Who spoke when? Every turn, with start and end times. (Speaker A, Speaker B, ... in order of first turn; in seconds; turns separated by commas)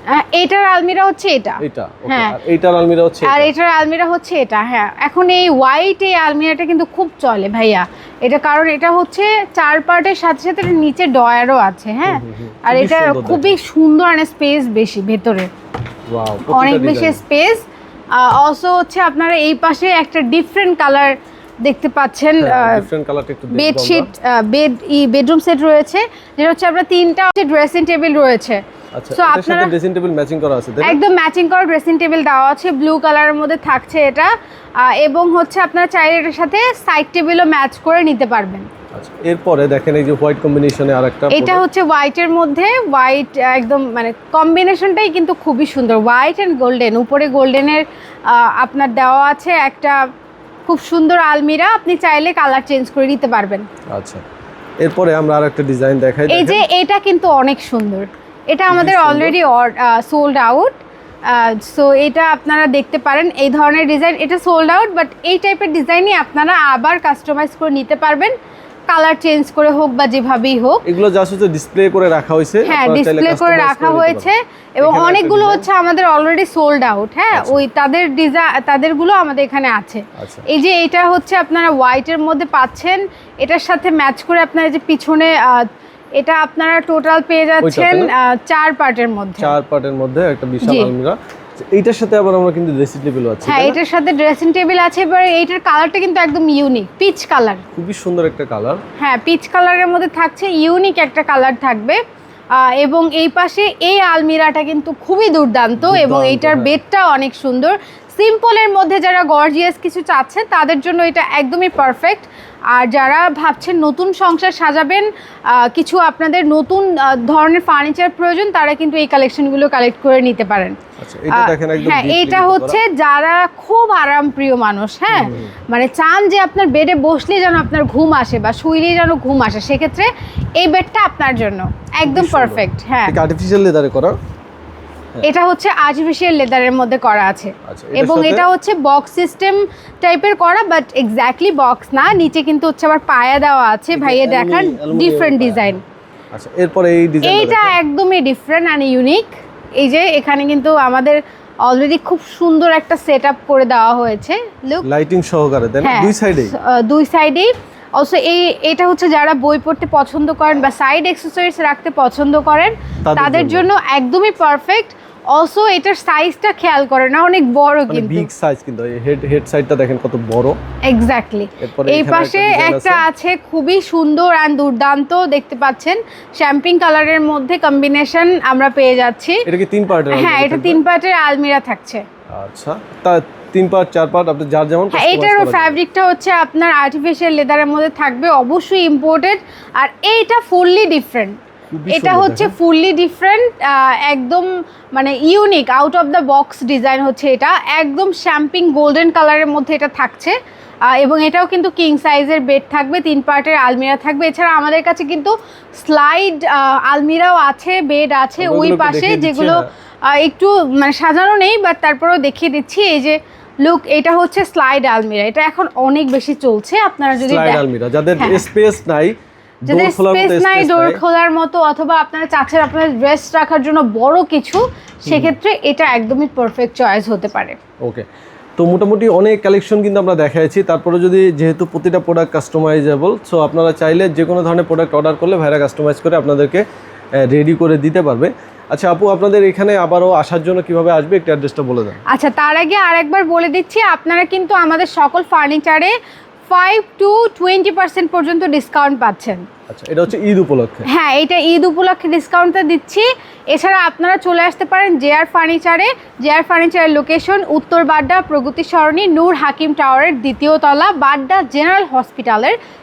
Speaker A: 0.1-2.4, Speaker B: 1.6-3.5, Speaker A: 3.2-15.5, Speaker B: 12.1-13.6, Speaker B: 16.1-17.2, Speaker A: 16.5-22.9, Speaker B: 22.4-24.1, Speaker A: 23.5-28.6, Speaker B: 28.9-31.0, Speaker A: 29.1-29.7, Speaker A: 30.8-38.6, Speaker B: 38.9-41.6, Speaker A: 41.3-50.0, Speaker A: 50.6-53.6, Speaker B: 53.9-54.2, Speaker B: 54.8-56.6, Speaker A: 56.3-68.3, Speaker B: 58.7-59.4, Speaker A: 68.9-70.8, Speaker B: 70.8-74.3, Speaker A: 72.6-89.5, Speaker B: 74.8-75.7, Speaker B: 77.3-77.6, Speaker B: 80.2-80.5, Speaker B: 87.6-88.1, Speaker B: 89.4-93.8, Speaker A: 90.6-90.9, Speaker A: 93.5-97.6, Speaker B: 97.8-98.8, Speaker A: 99.0-102.0, Speaker A: 102.5-120.8, Speaker B: 105.8-106.8, Speaker B: 121.0-122.8, Speaker A: 121.3-133.1, Speaker B: 125.1-125.5, Speaker B: 132.0-134.2, Speaker A: 135.2-145.8, Speaker B: 137.7-138.5, Speaker B: 143.9-145.8, Speaker B: 146.3-147.8, Speaker A: 147.2-154.9, Speaker B: 154.8-156.5, Speaker A: 155.8-168.3, Speaker B: 163.0-163.7, Speaker B: 167.9-170.6, Speaker A: 170.8-179.4, Speaker B: 171.6-173.0, Speaker B: 179.4-180.8, Speaker A: 180.1-182.0, Speaker B: 182.3-185.8, Speaker A: 184.9-200.3, Speaker B: 191.7-192.5, Speaker A: 200.9-217.6, Speaker B: 208.4-209.7, Speaker B: 217.1-219.1, Speaker B: 219.7-221.0, Speaker A: 219.7-227.6, Speaker B: 225.1-225.4, Speaker B: 228.6-236.6, Speaker B: 237.2-242.0, Speaker A: 242.1-245.9, Speaker A: 246.5-249.4, Speaker B: 249.7-250.8, Speaker A: 250.9-262.6